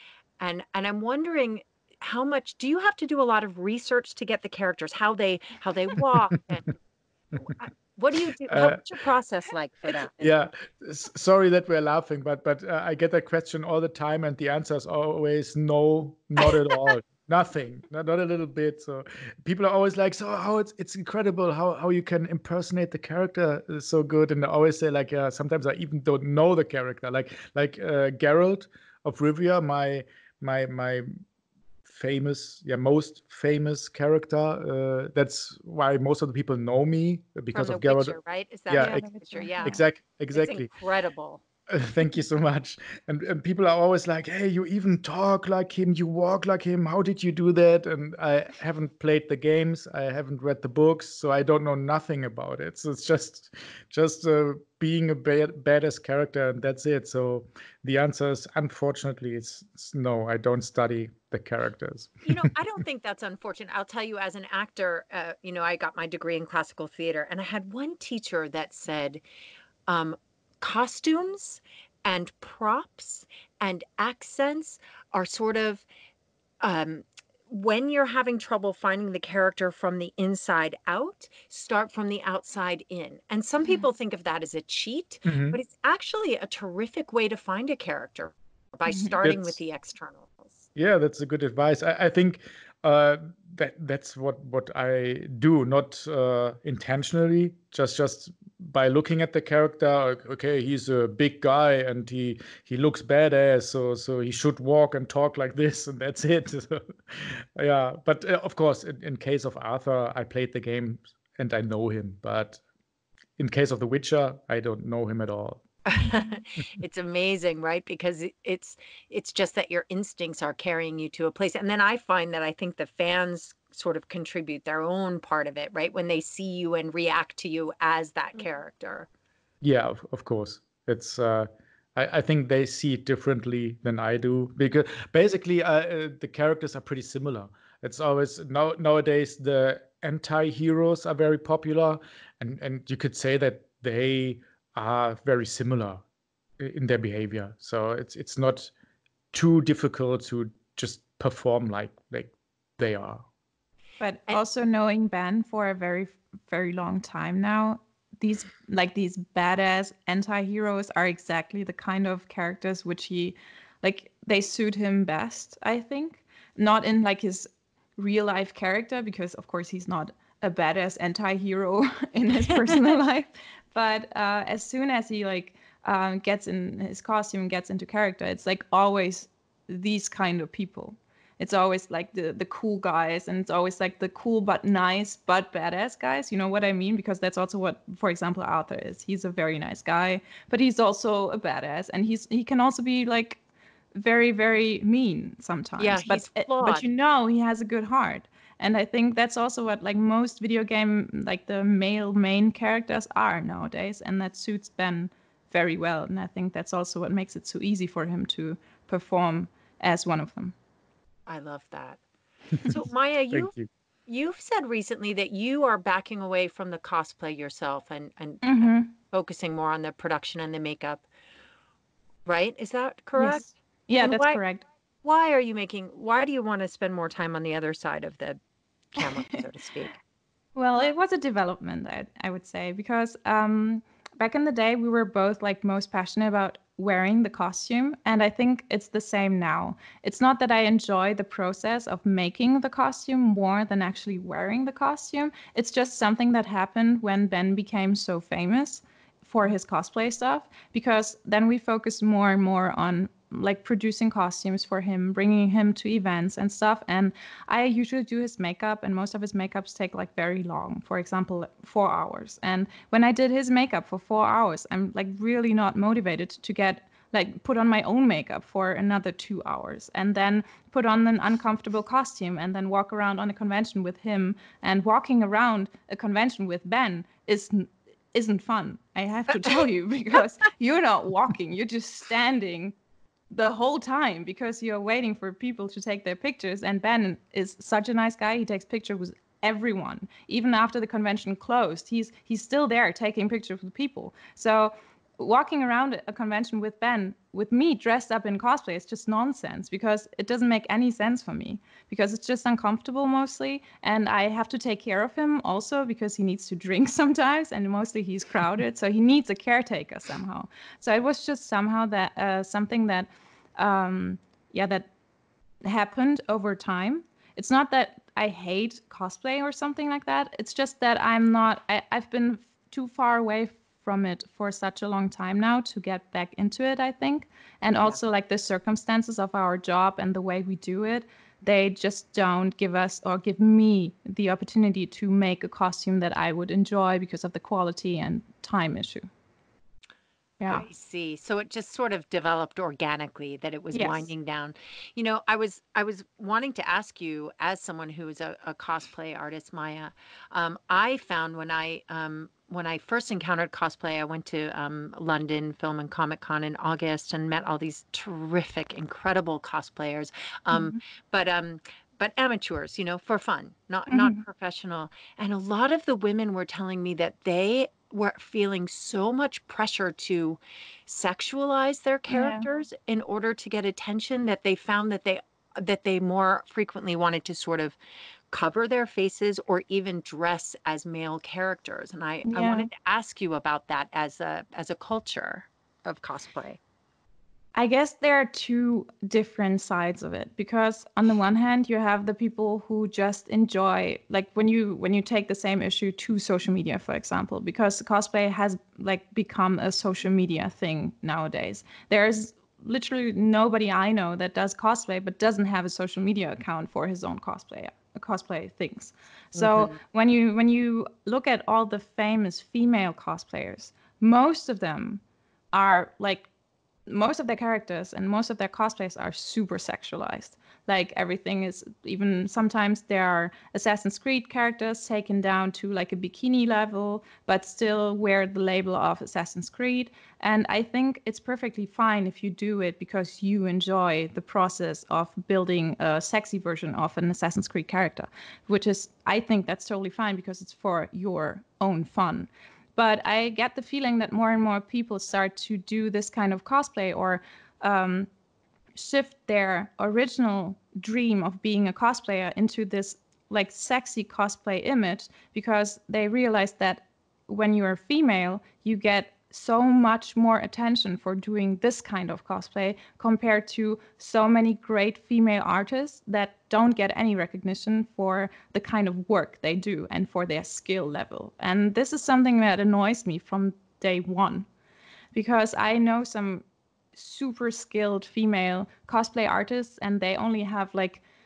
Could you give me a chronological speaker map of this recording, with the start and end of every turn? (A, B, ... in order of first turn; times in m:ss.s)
0:00.4-0:06.8 A
0:07.4-0:10.2 A
0:08.5-0:08.8 B
0:10.2-0:31.2 B
0:31.8-0:38.2 B
0:37.5-0:39.8 A
0:38.7-0:39.0 B
0:38.8-0:39.8 C
0:39.6-0:40.7 B
0:40.3-0:41.4 A
0:41.7-1:02.5 B
1:02.2-1:09.2 A
1:09.9-1:15.8 A
1:16.6-1:30.6 A
1:25.2-1:25.6 B
1:28.9-1:29.1 C
1:29.2-1:29.6 B
1:30.8-1:52.6 B
1:53.4-1:55.6 B
1:55.8-2:09.1 A
2:09.6-2:26.0 B
2:26.6-2:28.7 B
2:29.3-2:33.2 B
2:34.0-3:13.4 C
3:13.9-3:30.5 C
3:15.8-3:16.8 A
3:31.3-3:32.0 A
3:32.6-3:33.5 A
3:33.3-3:33.7 B
3:34.1-3:41.0 A
3:38.4-3:38.9 C
3:42.2-3:44.4 A
3:43.2-3:44.6 C
3:45.0-3:48.4 A
3:48.9-3:49.9 A
3:50.6-4:42.7 C
4:43.3-5:14.9 C
5:15.6-5:39.1 C
5:40.4-5:40.6 C
5:40.5-6:17.8 A
5:43.7-5:44.1 C
6:00.5-6:00.8 C
6:03.9-6:04.2 C
6:12.1-6:12.4 C
6:18.3-6:26.6 A
6:22.3-6:22.7 C
6:27.5-6:55.0 C
6:49.4-6:49.8 A
6:55.5-6:56.3 C
6:56.9-7:28.1 C
7:28.7-7:54.5 C
7:55.1-7:56.4 C
7:56.9-8:01.0 C